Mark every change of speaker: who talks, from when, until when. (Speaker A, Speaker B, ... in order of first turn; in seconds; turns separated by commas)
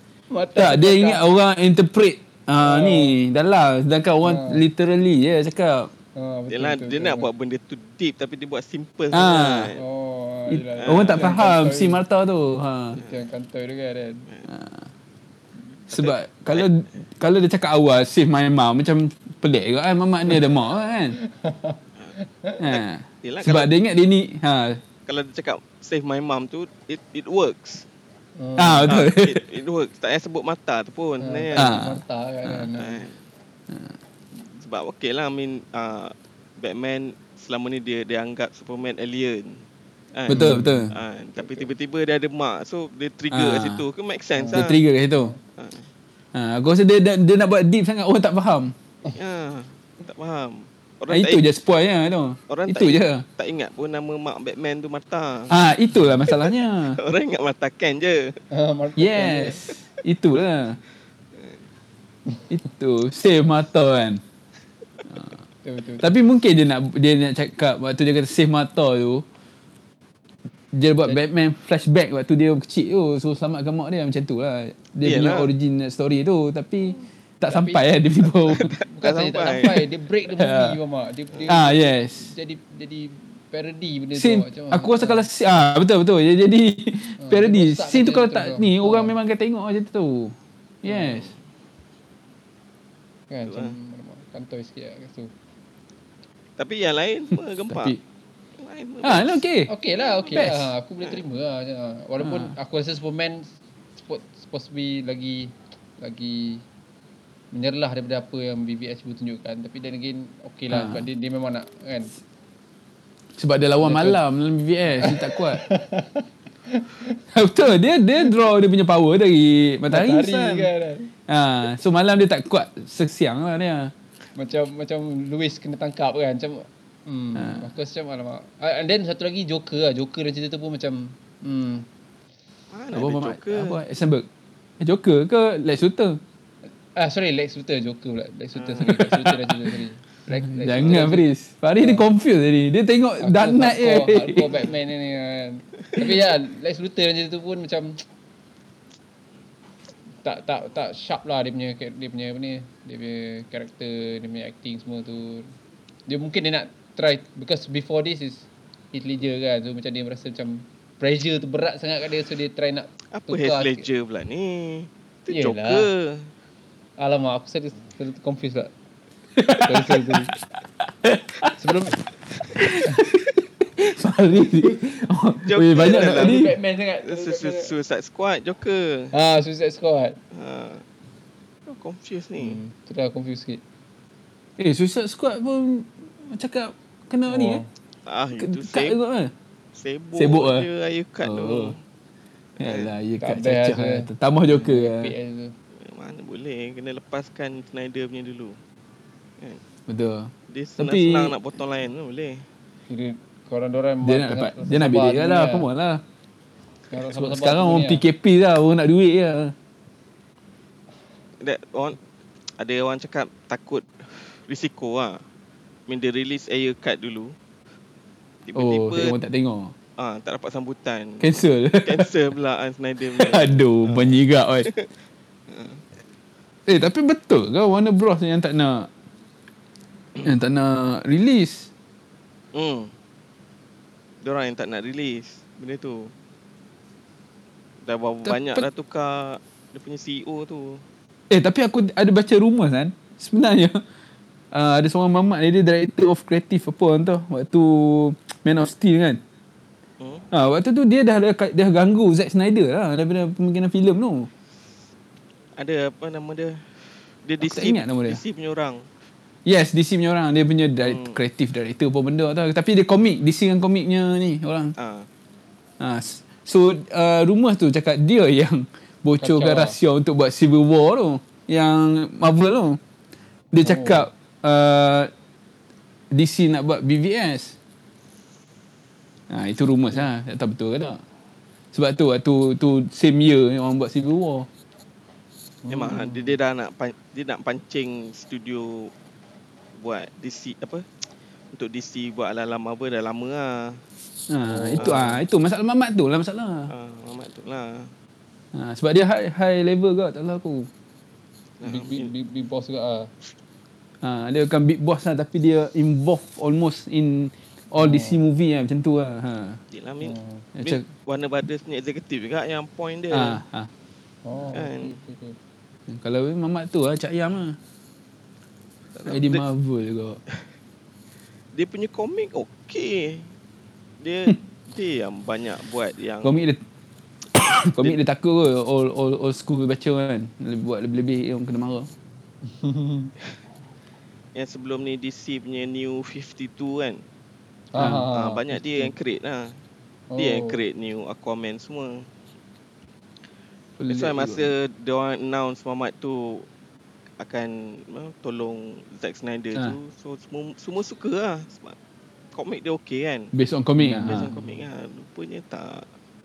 Speaker A: 0.3-1.2, Speaker B: 0.6-5.9, Speaker A: 2.6-3.1, Speaker A: 4.2-4.6, Speaker A: 6.2-7.3, Speaker C: 6.5-9.8, Speaker B: 9.1-9.7, Speaker A: 9.7-12.0, Speaker B: 10.5-13.0, Speaker C: 10.8-11.4, Speaker A: 12.9-14.2, Speaker C: 13.0-13.2, Speaker B: 14.5-14.8, Speaker B: 15.9-21.2, Speaker C: 15.9-16.7, Speaker A: 21.1-22.6, Speaker B: 22.6-24.8, Speaker C: 22.7-23.7, Speaker C: 25.1-27.8, Speaker A: 28.4-29.0, Speaker B: 28.6-29.4, Speaker C: 28.9-31.8, Speaker A: 31.2-33.0, Speaker B: 31.6-32.7, Speaker C: 32.8-33.2, Speaker B: 33.7-33.9, Speaker C: 34.5-44.8, Speaker B: 40.3-40.9, Speaker A: 40.3-41.7, Speaker B: 43.3-43.8, Speaker A: 44.4-45.4, Speaker B: 44.5-45.3, Speaker C: 45.5-45.9, Speaker B: 46.3-48.7, Speaker C: 49.1-51.5, Speaker B: 51.1-53.2, Speaker C: 52.5-55.5, Speaker B: 55.5-57.0, Speaker C: 56.2-58.4, Speaker A: 58.5-59.7, Speaker B: 59.0-60.8, Speaker B: 62.5-64.2, Speaker A: 65.6-66.1, Speaker B: 66.0-69.2, Speaker B: 70.7-78.7, Speaker C: 75.0-75.5, Speaker A: 77.5-77.9, Speaker A: 78.5-85.3, Speaker C: 78.5-79.9, Speaker B: 80.4-80.8, Speaker B: 81.5-82.3, Speaker B: 84.1-91.3, Speaker A: 87.2-89.2, Speaker A: 90.8-91.2, Speaker A: 93.3-95.3, Speaker C: 93.5-93.7, Speaker C: 96.6-98.0, Speaker B: 97.7-98.0, Speaker C: 98.6-99.4, Speaker B: 99.0-99.7, Speaker A: 99.7-106.6, Speaker B: 100.3-100.7, Speaker B: 102.2-102.5, Speaker A: 107.5-112.1, Speaker B: 110.7-111.0, Speaker B: 113.4-115.6, Speaker A: 113.8-114.2, Speaker A: 115.0-117.2, Speaker B: 117.3-120.7, Speaker A: 119.9-121.1, Speaker B: 121.3-123.9, Speaker A: 124.3-131.9, Speaker B: 127.3-127.7, Speaker C: 132.7-133.8, Speaker B: 132.9-134.3, Speaker B: 134.8-136.2, Speaker A: 136.9-142.0, Speaker C: 138.6-139.1, Speaker B: 138.9-139.3, Speaker B: 140.5-144.5, Speaker A: 143.2-148.0, Speaker A: 150.2-155.5, Speaker A: 156.1-163.9, Speaker C: 163.1-166.3, Speaker A: 165.3-165.9, Speaker A: 167.0-168.7, Speaker B: 169.3-170.2, Speaker A: 169.6-170.3, Speaker B: 170.8-171.6, Speaker A: 171.6-172.0, Speaker B: 172.5-176.5, Speaker C: 175.5-179.1, Speaker A: 175.7-177.7, Speaker A: 179.1-180.2, Speaker C: 180.3-180.8, Speaker C: 181.7-182.6, Speaker A: 182.4-183.6, Speaker B: 184.6-187.6, Speaker A: 187.3-187.7, Speaker C: 188.1-189.0, Speaker B: 188.4-189.3, Speaker C: 189.7-191.8, Speaker B: 190.2-190.7, Speaker B: 191.2-191.7, Speaker B: 192.6-195.1, Speaker C: 192.6-192.9, Speaker A: 193.2-195.5, Speaker C: 195.8-198.6, Speaker B: 199.9-201.3, Speaker C: 200.5-202.4, Speaker A: 202.9-205.7, Speaker B: 204.0-206.0, Speaker A: 206.9-208.0, Speaker B: 207.1-209.5, Speaker C: 211.4-212.0, Speaker C: 212.6-215.2, Speaker C: 215.9-217.3, Speaker C: 218.4-219.2, Speaker B: 218.5-219.7, Speaker C: 220.0-221.3, Speaker B: 221.2-222.1, Speaker C: 221.8-224.9, Speaker B: 223.1-224.7, Speaker C: 225.5-225.8, Speaker B: 226.7-228.9, Speaker B: 230.2-231.7, Speaker C: 232.5-232.9, Speaker C: 234.2-236.1, Speaker C: 237.8-240.8, Speaker B: 238.2-238.7, Speaker B: 241.3-243.8, Speaker B: 244.5-249.2, Speaker C: 250.0-250.3, Speaker B: 250.3-254.3, Speaker C: 255.6-258.9, Speaker B: 257.4-258.2, Speaker B: 259.4-264.7, Speaker C: 260.8-261.2, Speaker C: 264.8-265.1, Speaker B: 265.8-272.8, Speaker A: 269.2-269.8, Speaker B: 273.5-275.1, Speaker A: 273.6-274.1, Speaker B: 276.1-277.6, Speaker B: 279.3-281.0, Speaker B: 281.7-284.5, Speaker A: 285.6-286.4, Speaker C: 285.7-288.9, Speaker C: 289.7-293.8, Speaker B: 294.3-296.7, Speaker A: 294.4-295.2, Speaker C: 294.8-295.1, Speaker C: 296.7-297.9, Speaker B: 298.5-300.7, Speaker C: 301.6-302.1, Speaker A: 301.6-303.1, Speaker B: 304.0-309.6, Speaker A: 307.8-308.2, Speaker C: 309.7-313.4, Speaker A: 310.0-310.4, Speaker B: 310.6-310.8, Speaker B: 313.1-313.7, Speaker A: 314.2-315.4, Speaker C: 314.5-314.9, Speaker B: 315.9-317.6, Speaker C: 318.9-319.4, Speaker B: 319.1-320.2, Speaker C: 321.5-323.3, Speaker C: 324.0-326.4, Speaker B: 326.2-326.6, Speaker B: 327.3-331.9, Speaker A: 332.5-333.1, Speaker C: 334.3-337.0, Speaker A: 337.7-338.9, Speaker C: 337.8-339.6, Speaker B: 337.8-338.1, Speaker A: 340.1-340.6, Speaker C: 340.2-342.1, Speaker B: 343.8-344.5, Speaker C: 343.9-346.5, Speaker C: 347.2-351.8, Speaker C: 352.3-355.9, Speaker B: 353.3-354.3